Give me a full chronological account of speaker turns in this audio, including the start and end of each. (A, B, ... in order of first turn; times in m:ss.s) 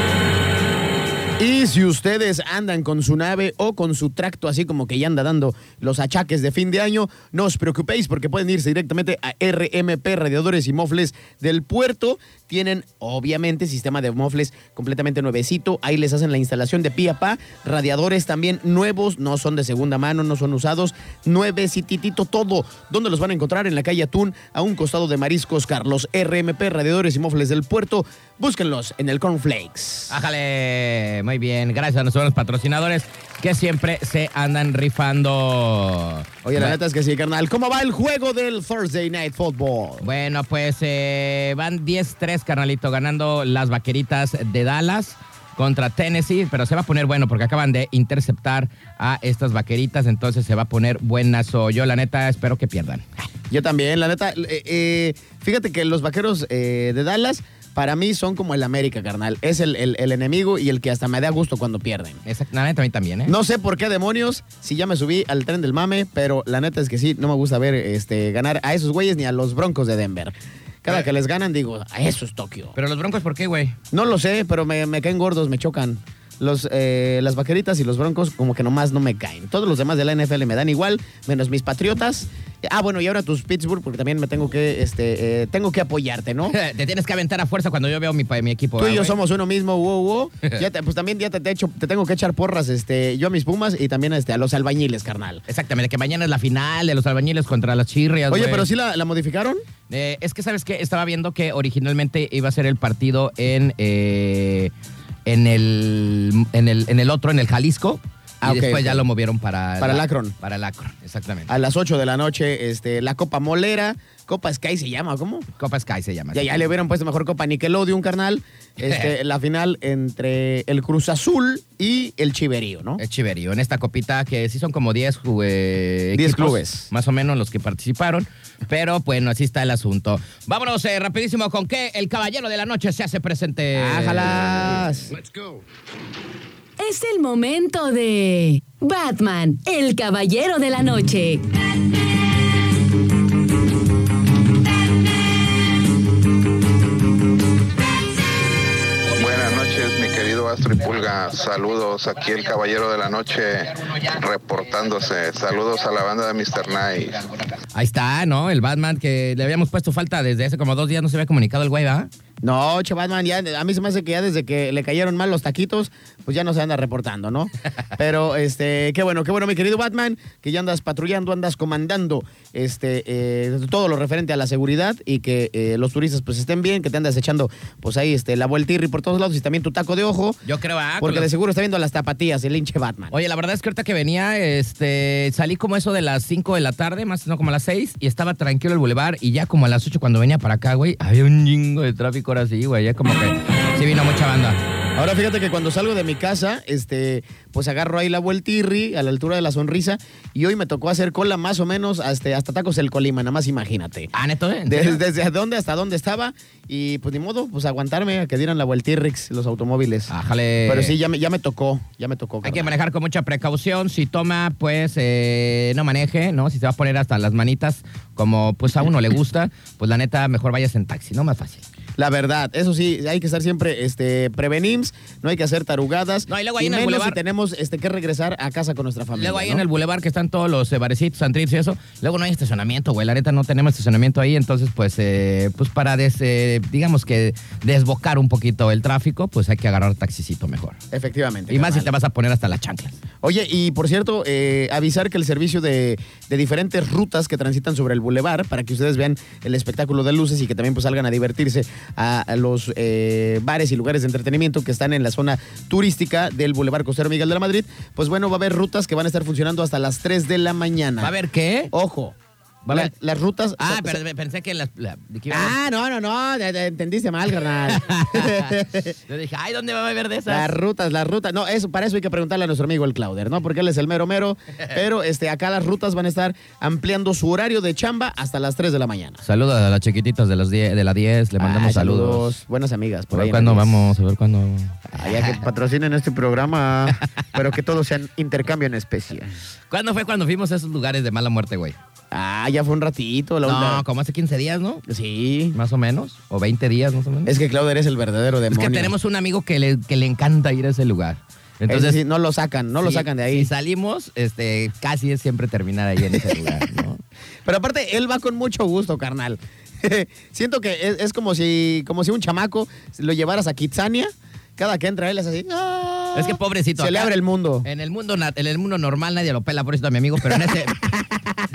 0:01.4-0:30.2 A
0:30.1-0:36.8 B
0:36.4-0:40.1 A
0:40.0-0:53.3 B
0:53.5-1:02.2 A
1:02.2-1:03.3 B
1:03.3-1:12.8 A
1:12.8-1:13.8 B
1:13.9-1:26.5 A
1:26.5-1:29.2 B
1:28.8-1:35.4 A
1:35.5-1:38.7 B
1:38.3-1:39.6 A
1:39.9-1:44.7 B
1:45.2-1:51.5 B
1:48.4-1:49.0 A
1:49.8-1:50.3 A
1:51.5-1:55.5 A
1:55.6-1:56.6 B
1:56.3-2:03.0 A
2:03.0-2:14.9 B
2:06.1-2:06.9 A
2:13.7-2:15.2 A
2:16.8-2:21.4 C
2:29.2-2:37.4 D
2:37.7-2:42.1 B
2:42.4-3:00.4 A
3:00.4-3:01.3 B
3:01.0-3:03.1 A
3:03.1-3:14.6 B
3:15.0-3:24.1 A
3:24.1-3:25.0 B
3:24.7-3:30.1 A
3:30.1-3:30.9 B
3:30.7-3:32.7 A
3:32.4-3:41.6 B
3:42.0-3:49.6 A
3:46.3-3:47.2 B
3:49.1-4:00.8 B
4:00.9-4:01.9 A
4:01.5-4:03.0 B
4:03.2-4:21.1 A
4:21.0-4:21.7 B
4:21.7-4:22.1 A
4:22.6-4:22.9 B
4:22.7-4:24.0 A
4:23.6-4:25.6 B
4:25.3-4:29.0 A
4:27.7-4:28.6 B
4:29.1-4:30.5 B
4:30.3-4:39.2 A
4:39.2-4:42.3 B
4:41.4-4:43.9 A
4:43.1-4:45.4 B
4:44.9-4:49.3 A
4:49.7-4:51.8 B
4:52.1-4:53.8 A
4:53.4-4:54.8 B
4:54.8-4:55.6 A
4:55.5-4:57.4 B
4:57.2-4:58.9 A
4:58.5-5:02.0 B
5:01.7-5:03.5 A
5:02.8-5:07.0 B
5:06.1-5:06.6 A
5:07.4-5:17.7 A
5:16.1-5:17.1 B
5:17.6-5:21.1 B